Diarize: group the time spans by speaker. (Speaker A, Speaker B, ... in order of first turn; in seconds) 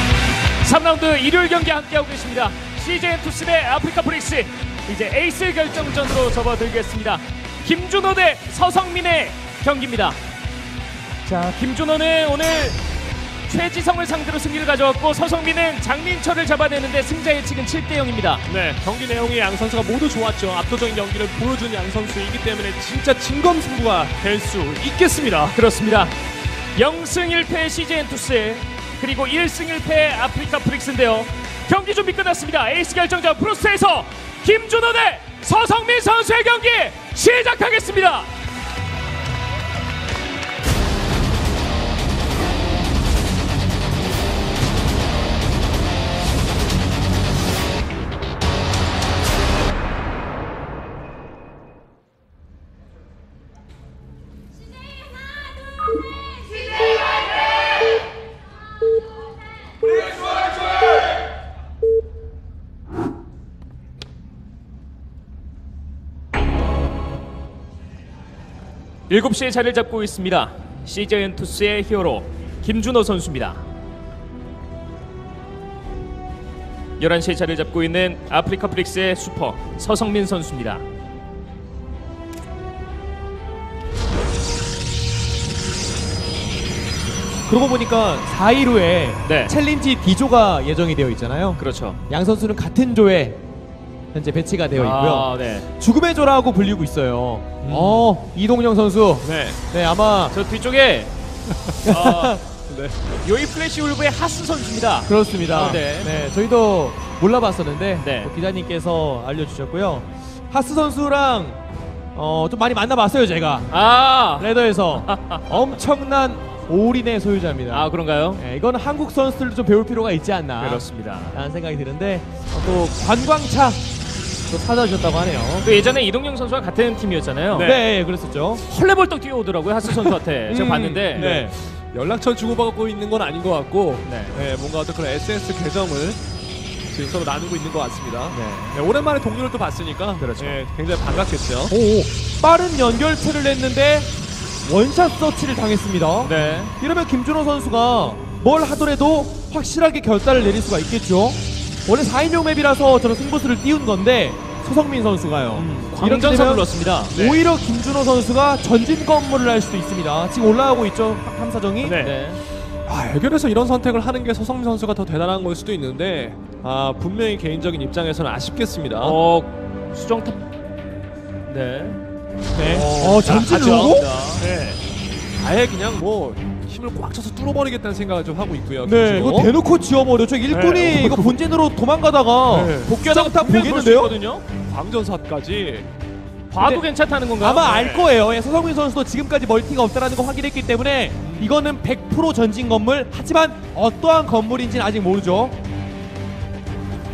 Speaker A: 0.6-10.2, 11.2-12.8, 13.5-18.4, 25.5-26.1, 26.7-38.3, 69.1-73.6, 77.0-80.8, 89.2-89.5, 91.6-92.0, 94.7-95.6, 100.3-101.1, 101.8-102.4, 103.2-106.1, 108.0-108.3, 113.7-114.5, 115.0-115.5, 117.7-118.4, 120.6-121.3, 125.6-127.7, 128.6-131.3, 134.0-134.3, 138.3-138.8, 140.2-140.6, 146.2-146.7, 155.9-157.4, 161.9-162.4, 169.0-170.4, 171.5-172.0, 173.6-174.4, 182.8-184.4, 186.5-187.9
Speaker B: 18.5-25.6, 97.6-98.1, 99.2-99.6, 101.6-102.1, 102.7-102.9, 127.5-127.8, 131.1-136.2, 136.9-141.7, 155.5-155.9, 161.8-162.2, 162.9-169.2, 172.7-174.8, 175.4-179.5, 180.5-181.4, 182.5-183.1, 184.7-185.9, 187.8-188.0, 191.2-191.5
Speaker C: 87.5-93.4, 94.1-100.3, 101.8-102.4, 105.0-111.6, 112.1-113.7, 114.3-123.8, 124.5-125.7, 127.6-128.6, 130.5-131.5, 141.7-144.1, 144.6-162.0, 172.5-174.1, 178.8-184.2, 186.6-186.8, 187.4-195.6